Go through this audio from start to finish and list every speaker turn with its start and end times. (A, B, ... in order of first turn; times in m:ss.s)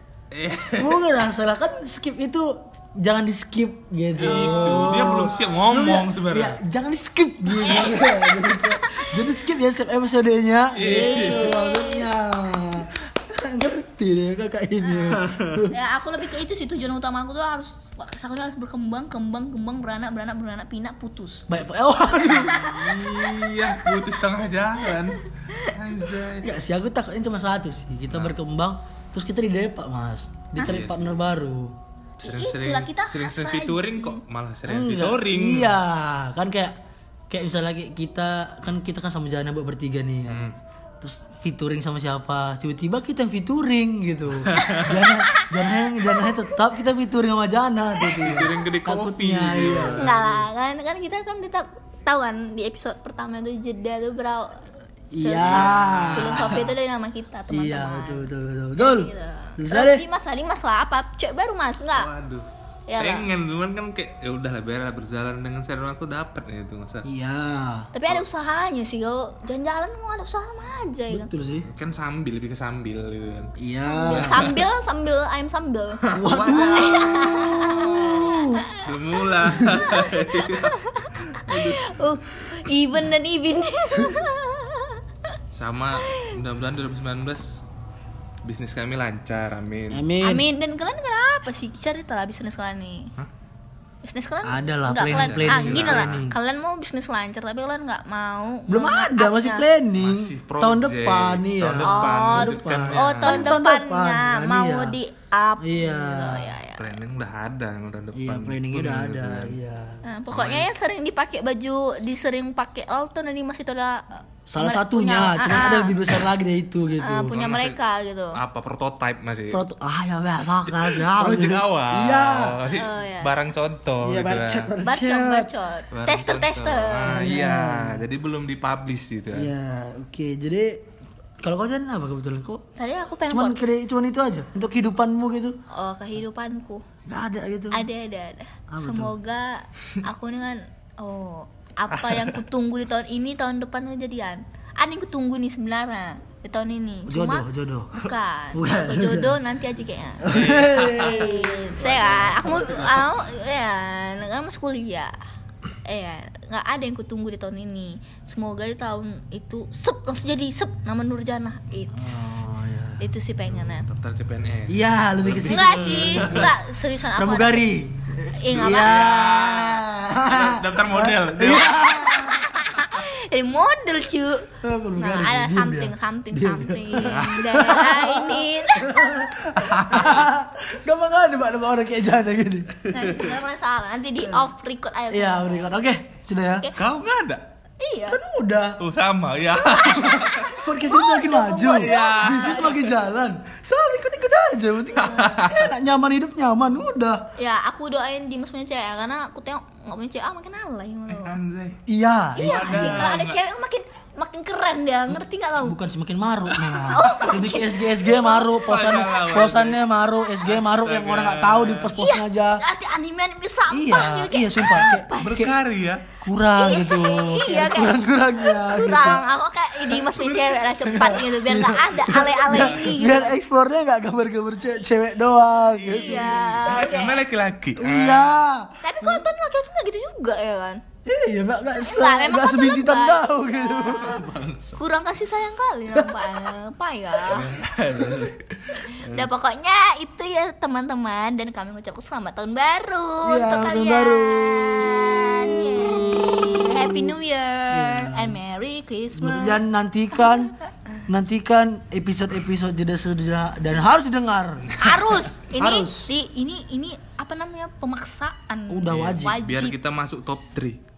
0:00.3-0:01.1 A
0:00.8-0:15.7 B
0:04.2-0:05.3 C
0:04.2-0:06.6 A
0:07.6-0:09.3 C
0:10.7-0:11.6 A
0:10.8-0:12.1 C
0:14.9-0:15.1 C
0:15.1-0:15.6 A
0:15.7-0:21.5 C
0:21.5-0:23.3 B
0:22.2-0:26.5 A
0:22.6-0:22.9 C
0:26.4-0:31.8 B
0:28.1-0:28.3 A
0:30.6-0:31.2 A
0:32.2-0:34.2 C
0:32.2-0:35.8 A
0:34.6-0:36.8 B
0:37.3-0:40.4 B
0:40.3-0:40.6 A
0:41.0-0:50.4 B
0:44.5-0:45.0 A
0:44.6-0:45.4 C
0:48.2-0:50.2 A
0:49.9-0:54.6 C
0:55.1-0:56.6 B
0:55.2-0:58.2 C
0:55.4-0:56.7 A
0:57.5-1:00.0 B
0:58.8-1:02.1 C
1:01.9-1:02.5 A
1:02.9-1:03.3 C
1:03.0-1:07.1 A
1:07.0-1:07.9 B
1:07.9-1:11.3 C
1:11.1-1:11.7 B
1:11.6-1:13.5 A
1:13.6-1:14.6 B
1:13.8-1:18.9 C
1:14.1-1:14.6 A
1:16.1-1:17.0 A
1:16.1-1:18.6 B
1:18.8-1:21.8 A
1:19.6-1:25.0 C
1:25.5-1:27.6 A
1:26.1-1:26.3 C
1:28.4-1:30.0 A
1:29.9-1:30.5 B
1:30.2-1:33.1 C
1:34.0-1:39.6 C
1:34.4-1:36.3 B
1:35.0-1:36.2 A
1:38.7-1:45.0 B
1:40.0-1:43.6 A
1:41.8-1:47.0 C
1:45.6-1:46.5 B
1:46.7-1:49.6 A
1:48.1-1:50.0 B
1:50.0-1:56.2 C
1:50.3-1:50.7 A
1:54.5-1:57.3 B
1:57.0-1:58.4 C
1:57.3-1:57.8 A
1:58.3-1:59.6 A
1:59.5-2:02.6 B
2:00.7-2:04.7 A
2:02.7-2:03.3 C
2:04.0-2:05.5 B
2:04.8-2:07.4 C
2:05.9-2:09.5 A
2:07.1-2:08.0 B
2:09.3-2:10.8 B
2:11.4-2:12.6 B
2:12.8-2:13.7 C
2:13.3-2:15.6 B
2:15.7-2:16.8 C
2:17.0-2:17.9 B
2:17.7-2:30.3 C
2:18.7-2:19.1 B
2:21.9-2:22.3 A
2:27.0-2:29.4 B
2:30.2-2:32.6 B
2:30.3-2:31.3 A
2:31.0-2:35.2 C
2:32.6-2:32.9 A
2:35.8-2:42.4 C
2:41.9-2:43.0 B
2:43.0-2:43.8 C
2:43.5-2:46.5 A
2:44.7-2:46.6 B
2:45.5-2:47.7 C
2:47.2-2:52.4 B
2:48.3-2:49.0 C
2:48.5-2:52.3 A
2:51.6-2:54.4 C
2:54.6-3:02.7 B
2:55.0-2:59.1 C
2:57.0-2:57.8 A
2:59.5-3:00.3 A
3:02.9-3:05.8 C
3:04.2-3:04.5 B
3:05.1-3:06.7 B
3:06.7-3:07.4 A
3:07.8-3:08.2 C
3:08.1-3:08.8 B
3:08.8-3:10.6 A
3:09.5-3:17.2 B
3:09.6-3:12.9 C
3:11.5-3:13.0 A
3:15.0-3:15.7 A
3:17.4-3:21.4 C
3:21.1-3:21.8 A
3:21.9-3:23.1 B
3:22.4-3:25.8 C
3:22.4-3:23.4 A
3:25.1-3:32.6 B
3:26.5-3:26.9 A
3:26.9-3:28.6 C
3:28.4-3:32.0 A
3:32.0-3:35.5 C
3:33.7-3:35.5 B
3:34.6-3:36.0 A
3:36.2-3:39.2 B
3:36.6-3:43.3 C
3:39.9-3:41.2 A
3:40.9-3:46.4 B
3:42.5-3:43.0 A
3:45.6-3:48.4 A
3:45.9-3:47.2 C
3:47.8-3:49.2 B
3:48.8-3:50.8 C
3:51.0-3:54.2 B
3:51.8-3:57.5 C
3:53.9-3:54.8 A
3:55.9-3:56.3 B
3:57.2-3:59.3 A
3:58.8-4:09.6 C
4:03.2-4:07.1 B
4:07.7-4:08.4 B
4:09.1-4:10.5 B
4:11.1-4:14.8 B
4:14.8-4:19.7 C
4:15.6-4:16.1 B
4:18.7-4:19.4 B
4:18.9-4:20.8 A